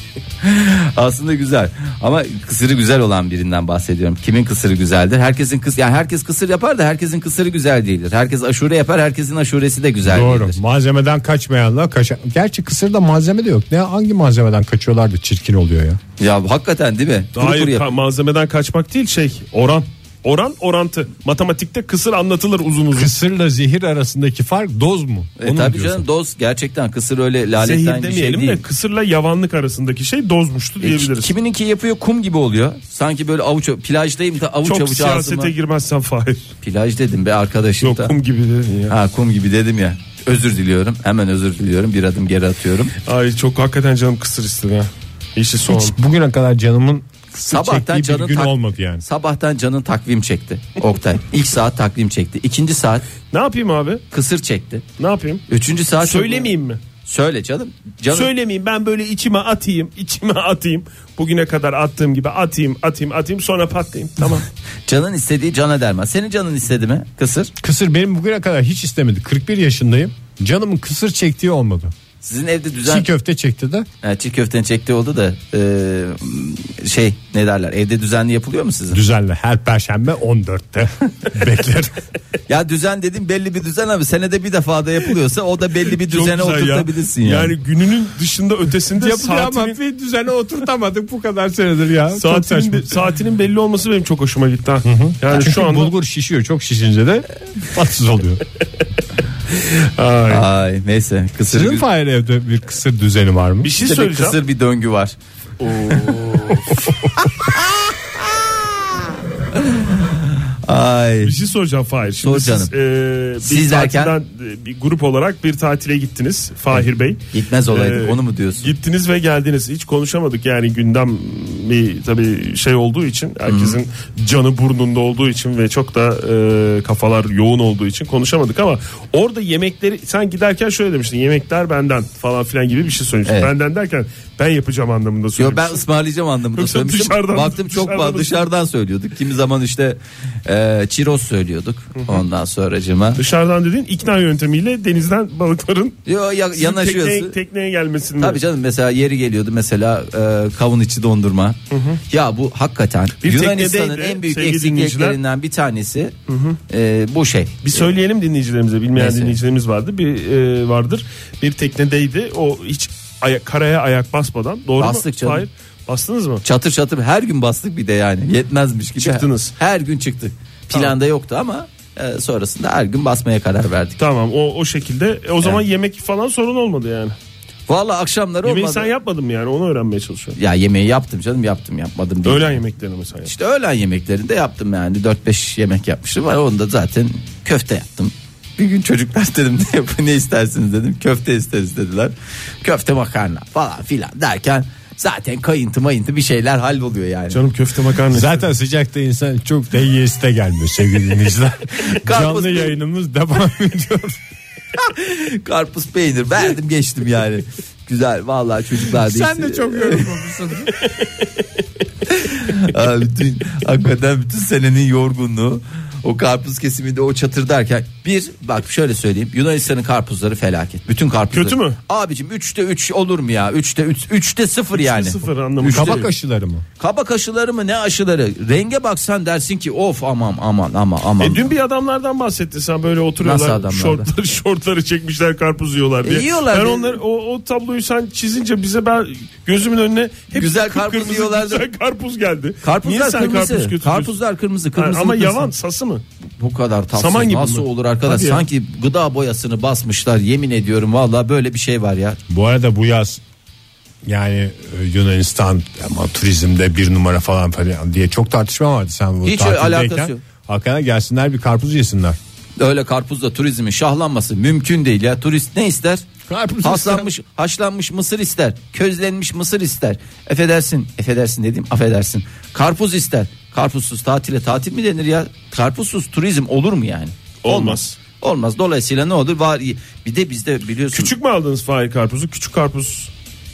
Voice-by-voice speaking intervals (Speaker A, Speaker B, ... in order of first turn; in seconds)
Speaker A: 0.4-10.6, 16.2-17.9, 25.4-28.6, 30.8-35.5, 36.6-38.1, 38.9-42.9, 47.5-53.1, 54.1-54.8, 55.5-56.5, 57.0-58.3, 64.9-67.5, 72.2-73.1, 74.0-79.0, 82.5-87.5, 100.3-101.8, 103.8-105.2, 105.7-108.5, 109.5-111.3, 112.2-112.7, 113.4-114.2, 116.7-118.7, 123.5-123.8, 133.2-133.5, 135.4-143.2, 146.1-147.3, 148.2-156.1, 156.7-157.8, 158.9-159.4, 164.8-165.4, 166.4-174.0, 177.7-178.9, 180.4-182.6, 183.2-197.4, 201.8-202.7, 204.8-210.1, 212.1-226.1, 226.8-231.4, 233.2-234.1, 236.0-237.0, 240.3-241.6, 242.6-245.5, 246.4-252.2, 259.2-260.2, 262.6-266.1, 266.6-281.1
Speaker B: 10.1-16.0, 22.9-26.0, 45.7-49.0, 67.6-71.9, 72.8-73.9, 78.9-82.0, 89.0-93.0, 94.8-98.4, 101.5-103.7, 198.1-204.2, 209.0-210.8, 225.6-226.6, 252.3-253.2, 254.1-262.2, 266.3-267.1
Speaker C: 17.4-23.1, 27.6-31.3, 34.6-36.5, 37.8-38.9, 43.0-46.0, 53.3-54.0, 55.0-55.5, 56.0-56.8, 58.1-64.5, 85.9-89.8, 92.1-95.9, 99.5-100.5, 103.6-104.4, 105.6-106.6, 111.2-135.8, 136.5-138.4, 143.2-146.0, 146.5-148.4, 151.7-152.0, 153.2-155.2, 156.3-156.6, 157.6-166.4, 169.0-169.5, 174.0-177.1, 178.4-180.4, 182.2-183.3, 197.3-198.4, 221.3-221.8, 224.8-226.1, 231.2-244.1, 244.8-246.0, 246.9-248.4, 277.4-277.9, 280.9-283.1